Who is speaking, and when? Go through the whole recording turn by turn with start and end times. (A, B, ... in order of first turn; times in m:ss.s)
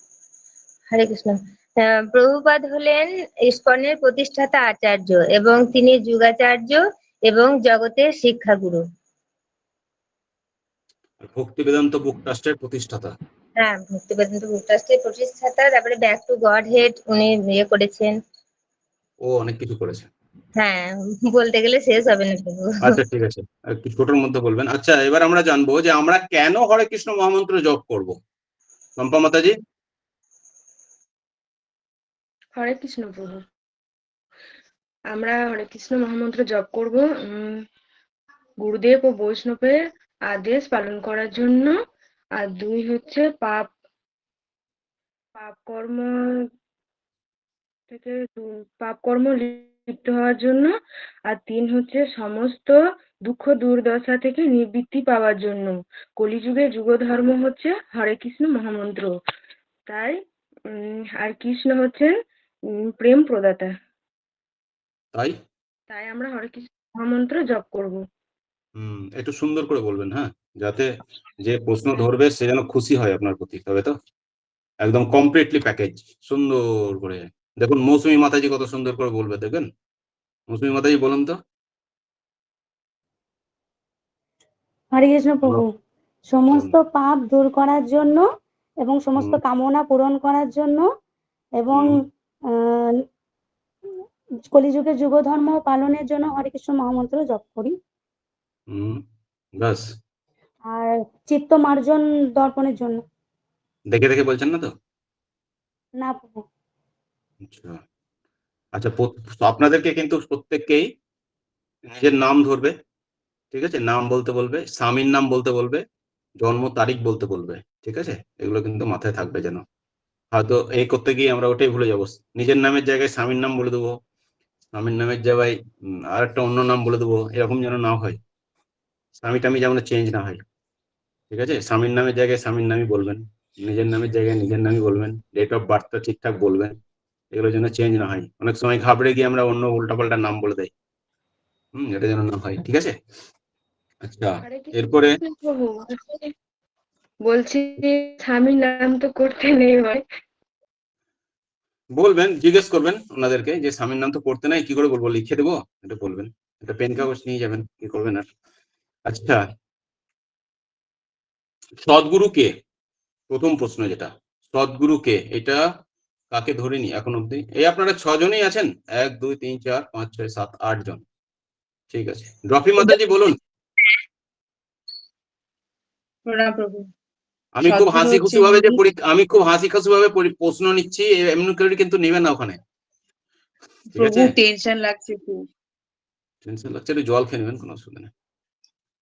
0:00.9-0:08.8 A
0:11.2-0:13.1 B
0:13.6-0:18.1 A
0:19.2-0:20.1 B
0:20.6-0:23.0 A
0:22.8-0:28.2 B
0:29.0-0:29.5 B
0:32.6-0:33.4 C
0:35.1-0:37.6 C
0:38.6-0:39.8 C
0:40.3-0:41.7 C
0:42.4-0:43.7 C
0:45.4-0:46.1 C
0:47.9-0:50.7 C
0:51.3-0:59.1 C
0:59.9-1:00.2 C
1:00.7-1:02.1 C
1:03.0-1:03.7 C
1:05.9-1:08.0 C
1:08.8-1:10.9 B
1:11.4-1:13.9 B
1:14.8-1:19.7 B
1:20.5-1:21.4 B
1:24.9-1:25.7 D
1:26.3-1:28.2 D
1:28.8-1:30.9 D
1:31.6-1:32.0 D
1:31.7-1:32.0 B
1:34.5-1:37.8 D
1:38.7-1:39.0 B
1:39.6-1:39.8 B
1:40.7-1:43.0 D
1:43.9-1:44.7 B
1:46.0-1:46.4 D
1:47.4-1:47.8 B
1:48.7-1:50.9 B
1:51.9-1:52.7 B
1:53.5-1:55.8 B
1:56.4-1:59.6 B
2:00.3-2:04.0 B
2:04.7-2:05.6 B
2:06.1-2:08.2 B
2:09.2-2:10.4 B
2:11.3-2:16.7 B
2:17.3-2:20.7 B
2:21.8-2:23.0 B
2:24.0-2:25.2 B
2:24.4-2:26.3 C
2:27.2-2:30.0 C
2:32.0-2:38.3 B
2:39.1-2:39.4 B
2:41.8-2:42.5 B
2:43.3-2:45.6 B
2:46.3-2:51.0 B
2:51.9-2:53.3 B
2:56.2-2:56.9 E
2:57.6-3:02.6 B
2:57.6-2:58.8 E
3:03.9-3:04.3 B
3:03.9-3:05.4 E
3:06.4-3:08.1 B